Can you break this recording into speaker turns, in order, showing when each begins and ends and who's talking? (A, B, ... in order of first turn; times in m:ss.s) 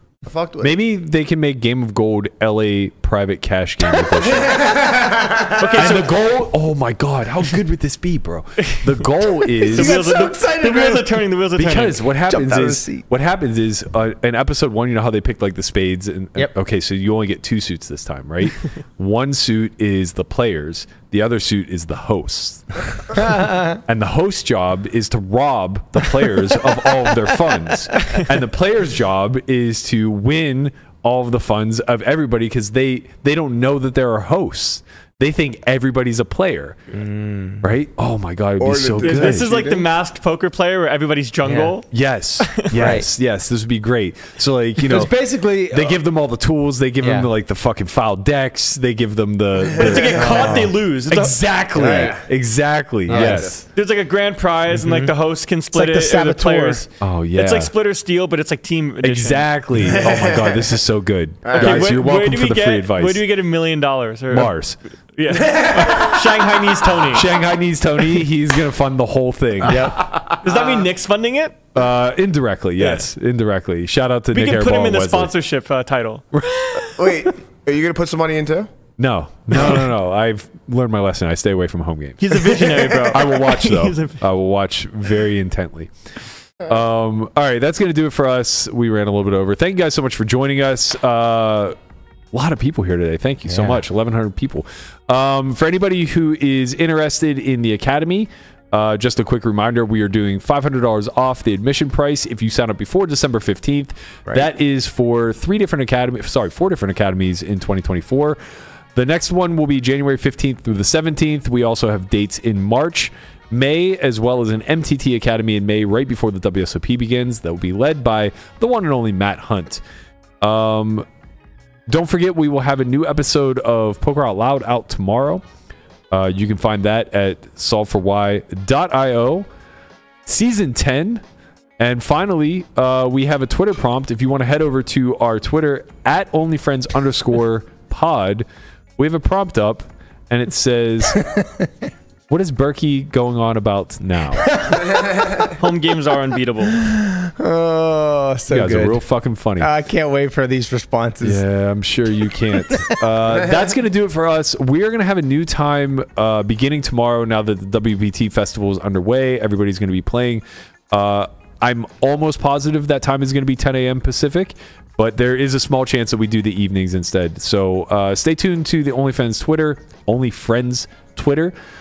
0:00.2-0:00.7 A
0:00.6-0:04.8 B
0:03.9-0:05.9 A
0:05.6-0:06.2 C
0:05.6-0:10.2 B
0:08.6-0:09.1 C
0:09.6-0:11.2 D
0:09.7-0:12.0 C
0:11.6-0:36.8 B
0:12.3-0:13.0 D
0:23.1-0:23.8 D
0:36.9-0:37.7 D
0:37.6-0:39.5 B
0:38.6-0:39.9 A
0:39.0-0:41.9 C
0:41.4-0:41.7 D
0:41.9-0:53.6 B
0:42.7-0:43.1 D
0:44.8-0:46.0 D
0:47.0-0:47.3 D
0:49.7-0:51.4 C
0:50.1-0:50.5 A
0:51.8-0:52.2 D
0:51.8-0:52.2 A
0:53.1-0:53.5 D
0:53.1-0:53.6 A
0:53.7-0:59.5 C
0:54.7-0:55.1 B
0:55.7-0:56.8 D
0:57.0-0:57.7 B
0:59.0-1:03.2 B
0:59.8-1:00.7 A
1:01.4-1:01.9 A
1:01.5-1:04.6 C
1:04.3-1:04.8 B
1:05.2-1:07.4 C
1:05.3-1:06.2 A
1:07.1-1:10.0 B
1:09.7-1:10.0 D
1:10.0-1:10.7 A
1:10.2-1:11.6 C
1:11.7-1:15.3 B
1:12.8-1:13.0 C
1:14.3-1:17.1 C
1:16.8-1:18.7 A
1:19.0-1:25.9 B
1:22.2-1:24.2 C
1:22.5-1:23.2 A
1:26.7-1:31.8 B
1:32.3-1:48.4 B
1:33.5-1:33.8 D
1:44.2-1:44.5 D
1:48.9-1:59.8 B
2:00.4-2:01.0 B
2:01.9-2:05.4 B
2:06.1-2:09.5 B
2:10.2-2:11.2 B
2:11.8-2:18.4 B
2:19.0-2:21.2 B
2:21.2-2:21.7 D
2:22.3-2:24.6 B
2:24.5-2:24.9 D
2:25.5-2:26.8 C
2:26.7-2:29.0 D
2:28.5-2:29.7 B
2:29.6-2:31.4 D
2:31.2-2:51.5 B